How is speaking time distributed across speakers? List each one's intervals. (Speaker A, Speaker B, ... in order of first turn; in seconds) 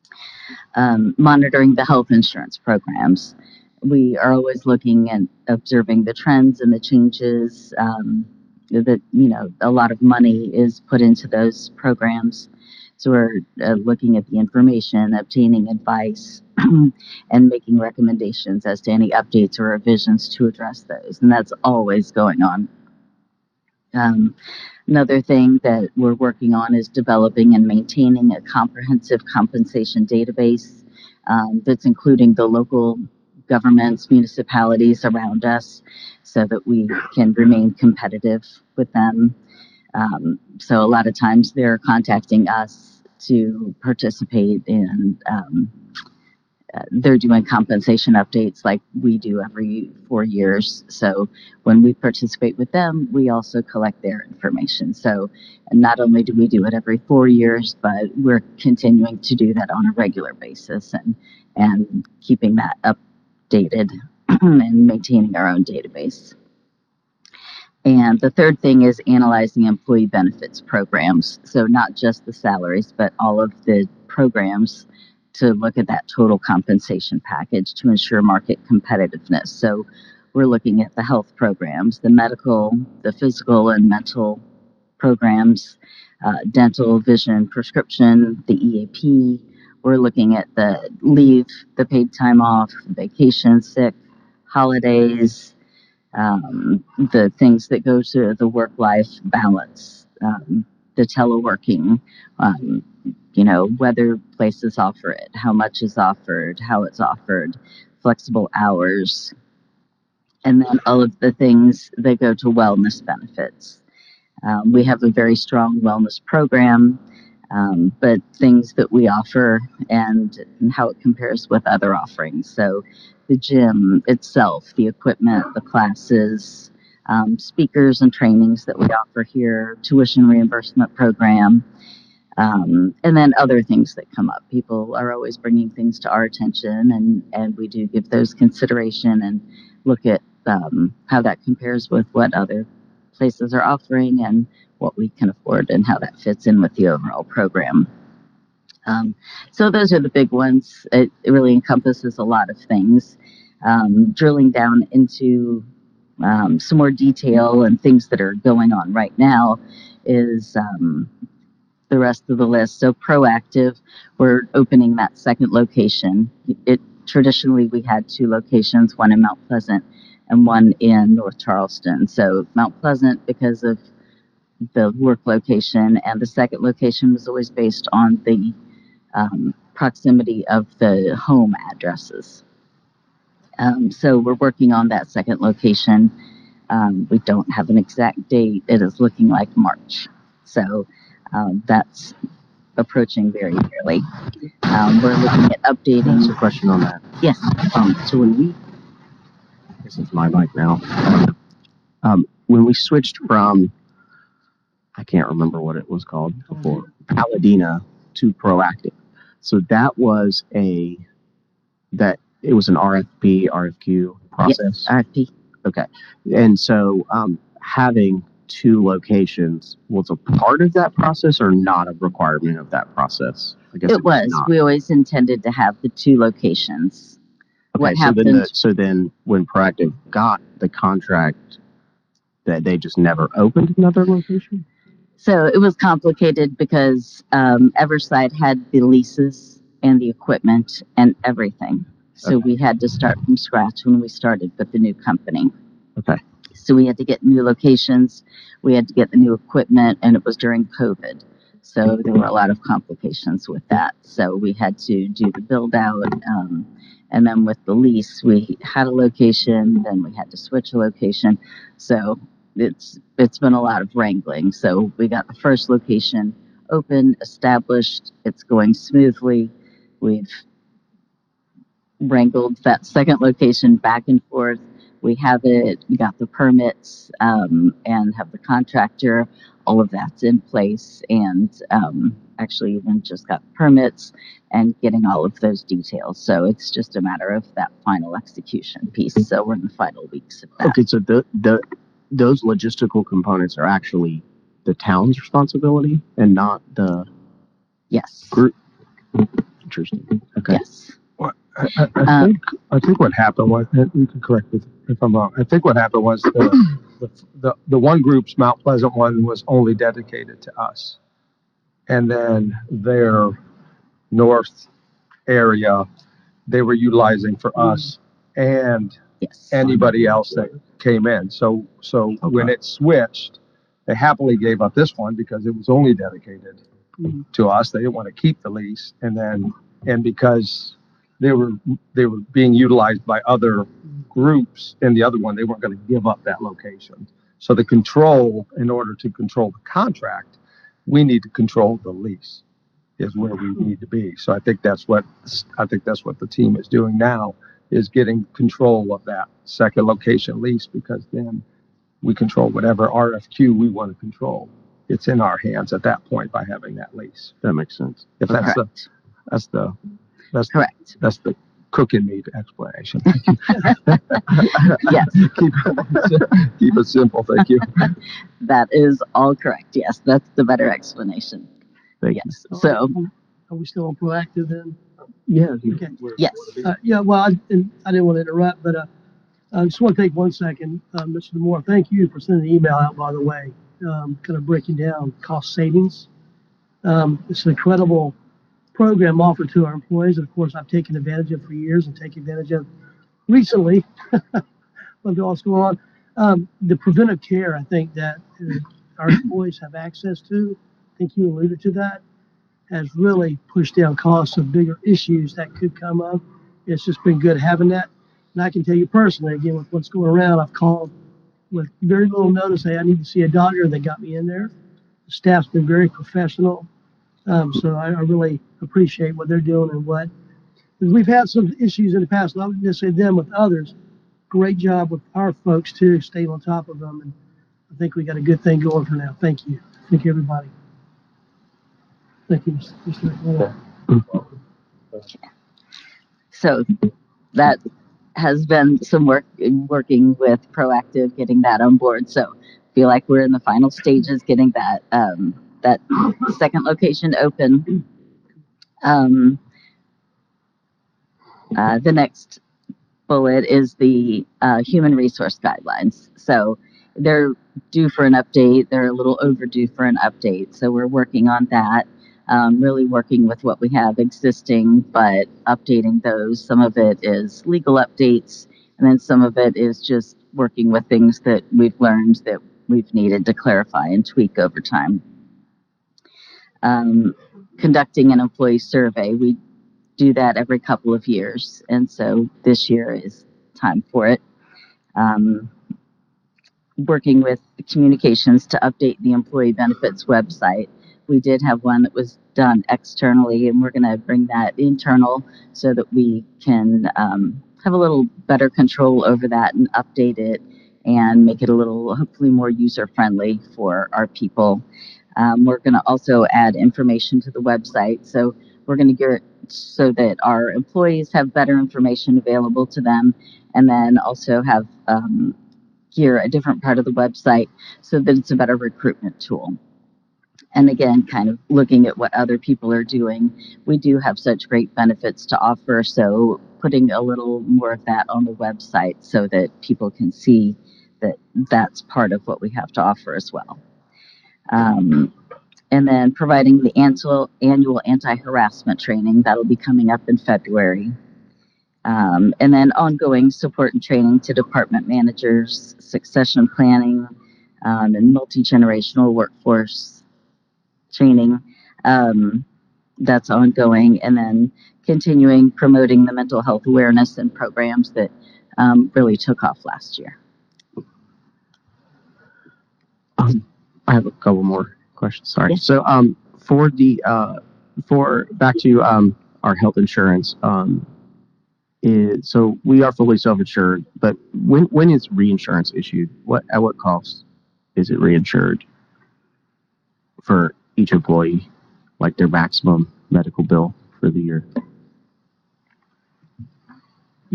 Speaker A: 0.8-22.7, 23.9-24.4, 24.9-39.4, 40.0-45.7, 46.8-63.0, 63.5-66.3, 67.8-84.4, 85.0-94.0, 94.5-95.5, 96.1-109.3, 110.5-113.8, 114.4-117.0, 117.5-131.6, 132.4-147.9, 148.9-155.7, 156.2-161.1, 161.9-173.8, 174.8-178.6, 179.1-182.4, 183.6-186.1, 186.7-192.2, 192.8-194.1, 194.7-196.3, 197.2-197.5, 214.4-215.3, 223.9-227.2, 227.8-228.5, 235.2-245.5, 246.6-270.4, 272.0-290.8, 297.9-298.4, 300.5-301.0, 302.1-302.3, 319.2-319.6, 358.3-358.6, 360.5-360.9, 364.8-365.2, 368.4-371.5, 372.1-373.0, 376.2-376.6, 436.3-436.8, 437.3-437.6, 438.2-447.8, 448.8-449.4, 451.5-452.4, 453.1-475.0, 476.6-479.4, 480.0-484.2, 485.0-485.5, 486.8-504.6, 505.2-515.4, 515.9-519.6, 520.5-533.6, 534.5-535.1, 535.7-541.0, 541.9-547.1, 547.6-550.0, 550.9-552.5, 553.0-560.2
Speaker B: 196.1-197.1, 197.6-198.6, 199.8-201.3, 202.0-203.7, 204.9-211.0, 211.9-214.9, 215.6-224.5, 227.8-231.6, 232.4-234.6, 290.6-297.1, 299.2-300.6, 357.4-358.1, 372.0-372.4, 375.3-375.9, 563.2-570.9, 571.8-577.2, 577.8-578.6, 580.2-581.5, 582.0-584.5
Speaker C: 301.2-311.0, 311.9-313.4, 314.1-314.7, 315.3-315.9, 316.5-319.0, 319.5-326.6, 327.3-342.4, 343.0-351.4, 352.0-357.3, 358.2-358.7, 359.3-359.8, 360.3-367.9
Speaker D: 372.5-374.8, 375.7-376.0, 376.6-378.9, 379.5-386.1, 386.8-388.2, 388.7-392.7, 393.3-394.4, 395.0-402.0, 402.7-410.9, 411.5-414.5, 415.1-416.7, 417.3-420.1, 420.8-423.8, 424.3-427.1, 427.7-430.5, 432.3-433.6